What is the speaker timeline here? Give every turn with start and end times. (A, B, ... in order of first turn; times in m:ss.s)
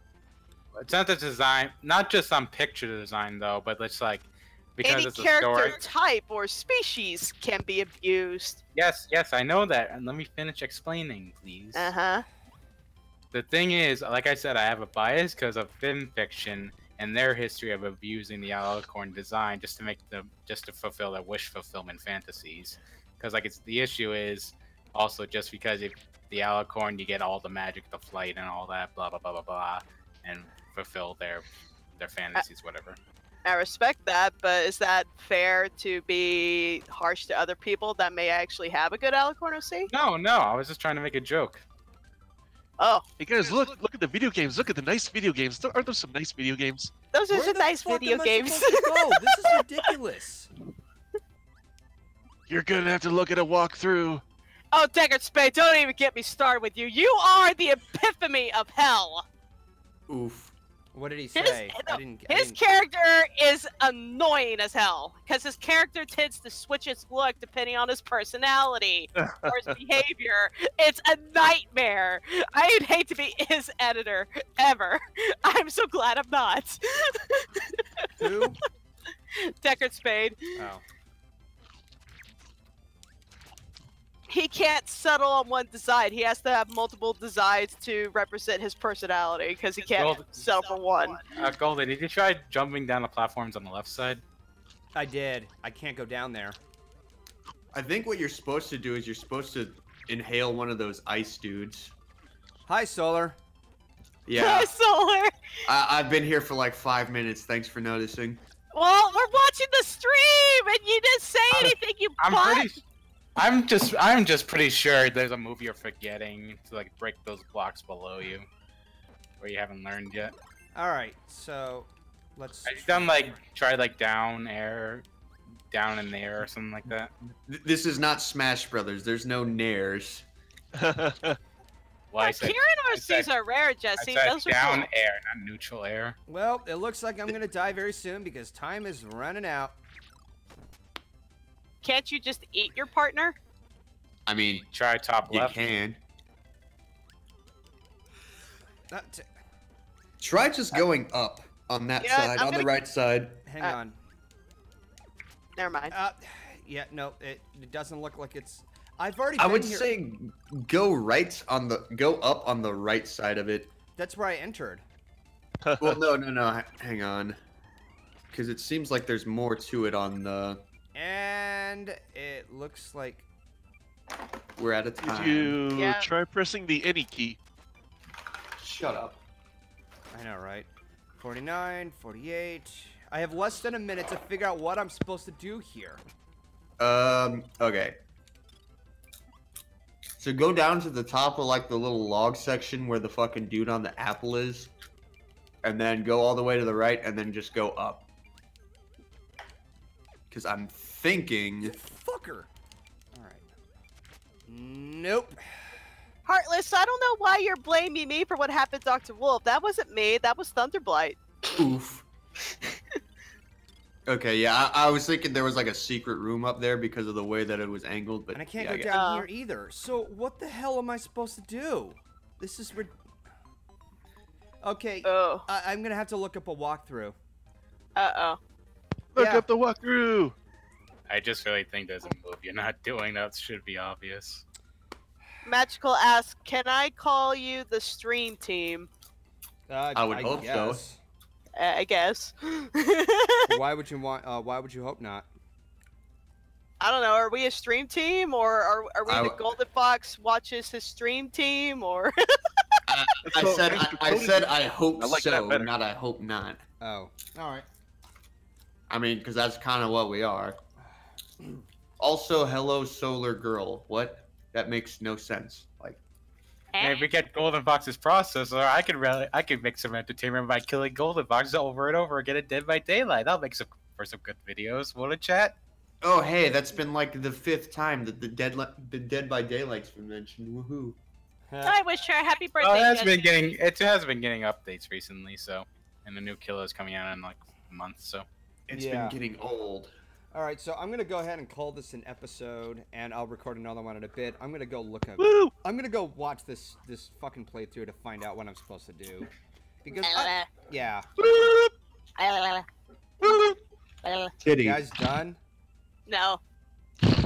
0:00.8-0:04.3 A
0:04.8-0:05.8 A
0:04.8-0:08.6 B
0:08.8-0:11.9 A
0:11.8-0:12.2 B
0:13.3-0:31.5 A
0:32.0-0:33.0 A
0:33.4-0:39.9 B
0:39.9-0:41.6 A
0:42.8-0:43.0 B
0:43.2-0:46.9 C
0:47.1-0:49.9 B
0:47.3-0:50.5 D
0:52.5-0:54.2 C
0:54.7-0:59.2 B
1:00.1-1:00.5 E
1:00.9-1:02.6 D
1:01.4-1:18.1 B
1:09.2-1:09.5 C
1:18.2-1:18.6 D
1:19.3-1:20.4 B
1:20.6-1:20.8 D
1:24.3-1:31.2 B
1:30.0-1:30.5 A
1:31.3-1:34.2 A
1:35.0-1:36.6 D
1:37.7-1:41.9 E
1:42.7-1:43.4 D
1:44.3-1:44.7 E
1:44.4-1:45.3 B
1:45.7-1:48.4 E
1:48.7-1:52.8 B
1:51.5-1:52.8 A
1:53.4-1:58.5 A
1:59.4-2:00.3 A
2:00.8-2:03.4 D
2:02.7-2:05.0 A
2:05.7-2:07.1 A
2:07.4-2:10.3 E
2:10.8-2:11.4 C
2:12.1-2:13.3 A
2:12.2-2:14.9 B
2:14.0-2:16.2 A
2:16.3-2:19.8 D
2:21.8-2:23.4 B
2:24.3-2:24.7 E
2:24.7-2:25.6 A
2:25.2-2:26.0 E
2:28.9-2:29.3 D
2:30.2-2:33.4 E
2:32.0-2:32.7 B
2:33.4-2:34.0 D
2:35.6-2:35.9 B
2:35.9-2:39.9 D
2:39.4-2:43.8 E
2:43.9-2:44.8 D
2:45.6-2:46.0 C
2:45.8-2:47.4 E
2:48.3-2:50.6 E
2:51.0-2:53.3 D
2:54.6-2:55.6 E
2:55.0-2:57.4 C
2:55.7-2:56.1 B
2:58.6-2:59.2 E
3:00.1-3:06.0 D
3:06.8-3:08.0 E
3:10.2-3:14.7 E
3:15.6-3:18.1 E
3:20.3-3:21.8 E
3:21.6-3:22.5 D
3:23.1-3:23.5 D
3:24.5-3:25.7 D
3:26.3-3:31.2 B
3:31.5-3:32.0 E
3:34.1-3:39.0 E
3:38.3-3:43.0 D
3:38.9-3:39.3 B
3:44.6-3:47.2 D
3:45.0-3:45.4 B
3:48.0-3:48.4 B
3:49.2-3:50.4 C
3:49.2-3:49.5 D
3:51.1-3:54.4 A
3:55.4-3:58.9 B
3:59.7-4:01.0 D
4:00.0-4:00.8 E
4:01.6-4:03.5 B
4:03.5-4:05.3 D
4:06.8-4:12.1 B
4:09.1-4:09.4 E
4:12.9-4:16.6 E
4:13.2-4:15.7 C
4:16.8-4:17.7 D
4:18.9-4:20.6 E
4:22.0-4:26.0 E
4:26.7-4:27.1 B
4:26.8-4:35.6 A
4:36.0-4:41.0 E
4:41.5-4:41.8 D
4:41.6-4:43.3 B
4:42.6-4:48.3 A
4:48.7-4:49.9 E
4:48.7-4:49.2 D
4:50.3-4:59.3 D
4:55.2-4:55.5 C
4:59.8-5:01.1 D
5:00.0-5:00.5 B
5:01.2-5:01.7 E
5:02.2-5:02.6 B
5:03.2-5:03.6 E
5:04.0-5:04.3 B
5:04.4-5:04.9 E
5:04.6-5:05.4 D
5:06.1-5:06.4 B